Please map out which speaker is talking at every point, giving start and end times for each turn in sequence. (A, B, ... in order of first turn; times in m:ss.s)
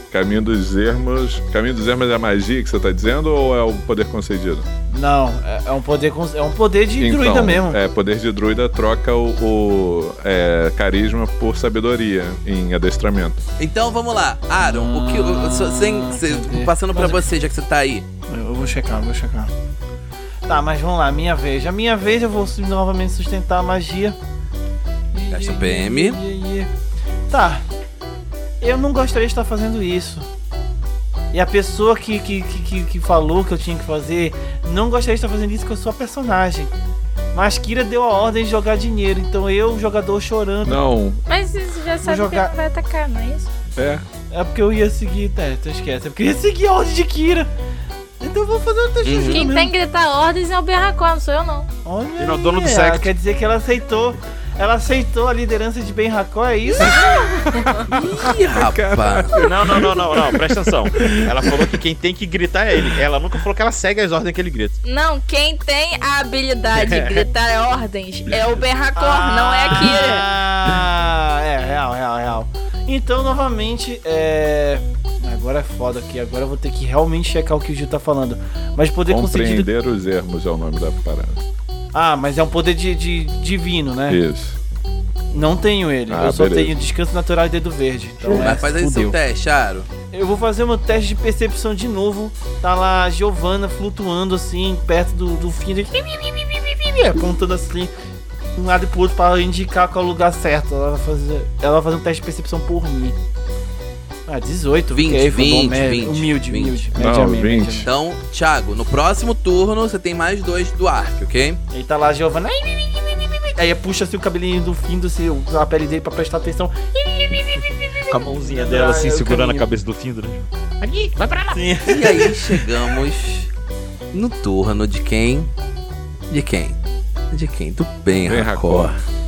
0:00.1-0:04.7 A
0:04.9-0:07.8 B
0:07.0-0:13.4 A
0:13.6-0:18.0 C
0:14.6-0:17.3 B
0:18.3-0:19.5 B
0:20.5-0:24.2 B
0:25.1-0:26.7 B
0:25.3-0:26.2 C
0:27.3-0:27.6 B
0:28.6-0:30.3 B
0:31.3-0:36.7 B
0:37.3-0:40.8 B
0:40.6-0:41.2 A
0:41.3-0:43.5 D
0:42.0-0:42.5 B
0:43.8-0:44.0 A
0:44.3-0:47.5 B
0:48.2-0:49.7 B
0:49.0-0:49.5 C
0:49.1-0:51.7 D
0:51.8-0:57.6 B
0:52.2-0:53.1 E
0:56.8-0:57.8 D
0:57.5-1:01.2 A
0:57.9-0:59.4 C
0:59.4-1:04.8 E
1:04.8-1:10.3 D
1:06.8-1:07.2 E
1:09.0-1:19.7 B
1:19.1-1:21.4 A
1:21.9-1:24.2 B
1:24.1-1:24.6 A
1:25.3-1:29.2 B
1:26.1-1:26.7 A
1:28.3-1:29.9 C
1:30.1-1:37.9 B
1:38.6-1:43.2 B
1:44.3-1:47.9 B
1:44.9-1:46.8 C
1:47.0-1:47.9 A
1:47.8-1:51.6 C
1:51.7-1:59.7 B
1:58.1-2:02.2 E
2:01.5-2:02.5 B
2:01.9-2:03.5 C
2:04.1-2:05.5 C
2:06.3-2:06.8 C
2:07.3-2:08.9 C
2:08.2-2:09.0 A